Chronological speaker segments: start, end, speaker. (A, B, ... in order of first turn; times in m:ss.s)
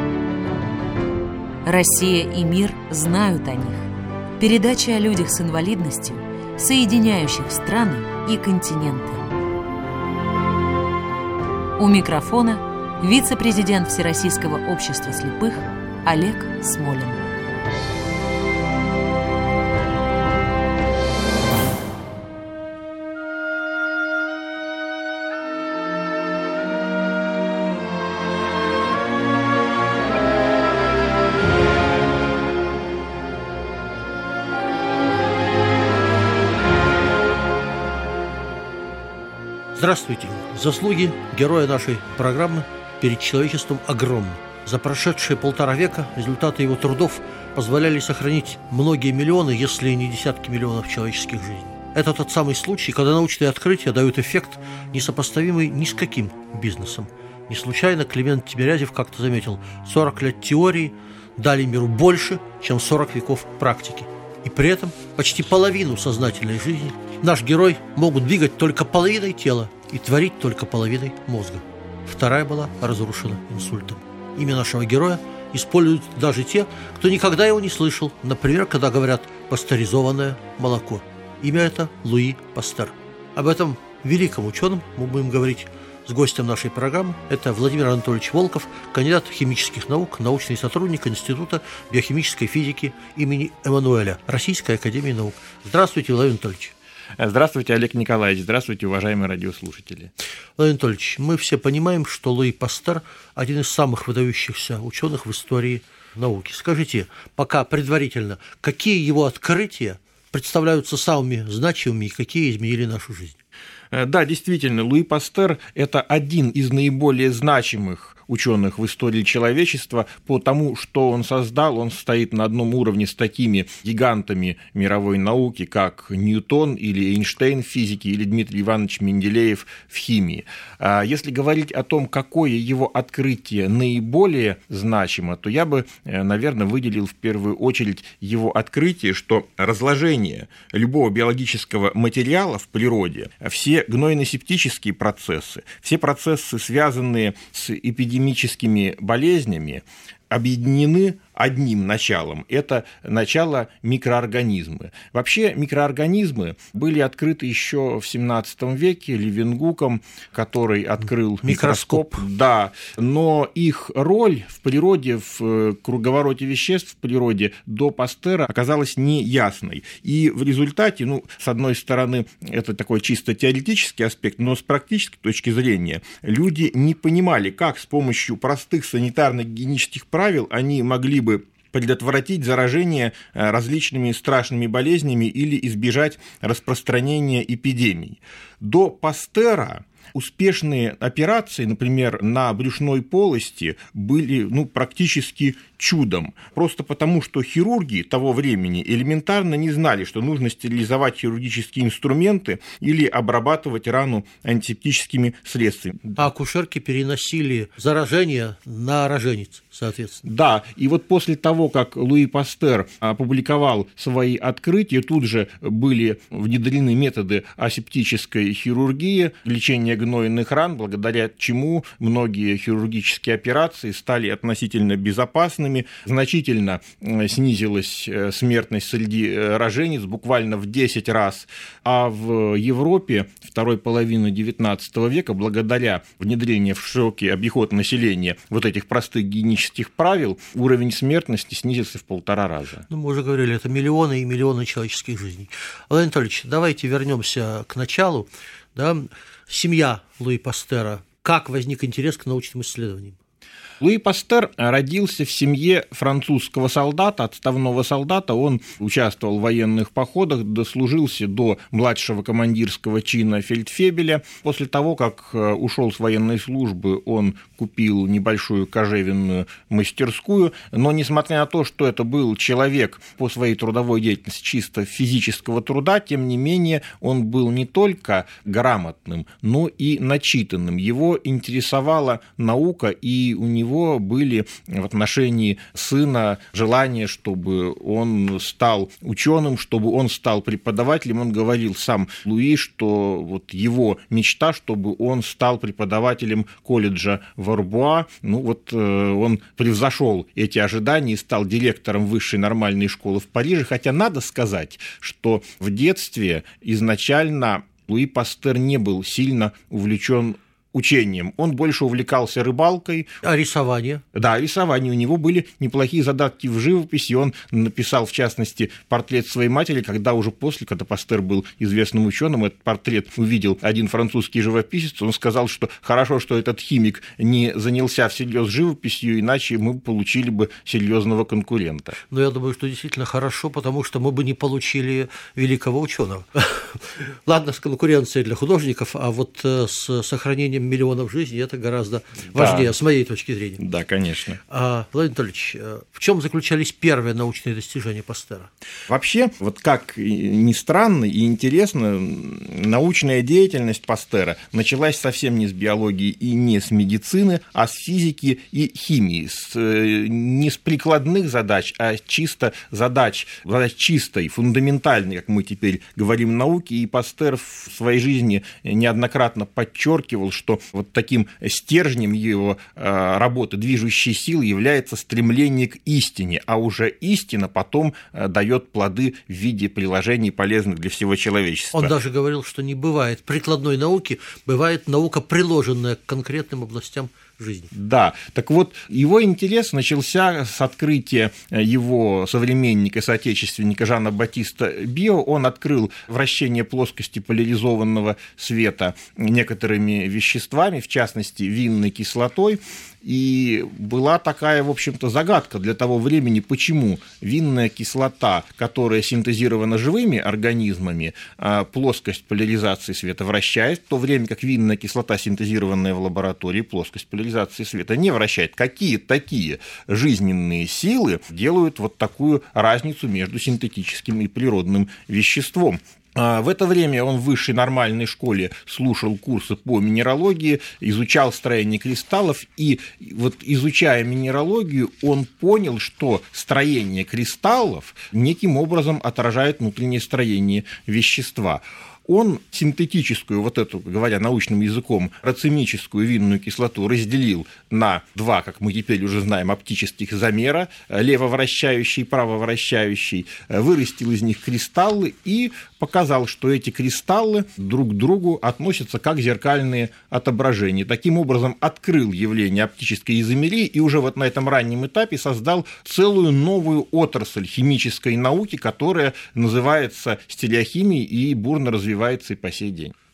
0:01.6-0:03.9 A
0:04.4-0:09.2 A
0:11.8-0:17.2 A
0:39.7-1:36.7 B
1:37.2-1:40.1 C
1:40.6-1:53.4 B
1:53.9-3:26.3 C
2:41.4-2:42.2 B
3:26.2-3:30.2 B
3:30.2-4:02.8 C
4:02.9-4:13.2 B
4:13.8-5:13.1 C
5:13.2-5:14.0 B
5:14.1-5:32.0 C
5:32.1-5:43.6 B
5:42.3-5:42.7 C
5:43.6-5:44.4 C
5:44.5-5:48.5 B
5:48.9-6:21.9 C
6:21.7-6:27.7 B
6:27.7-7:52.9 C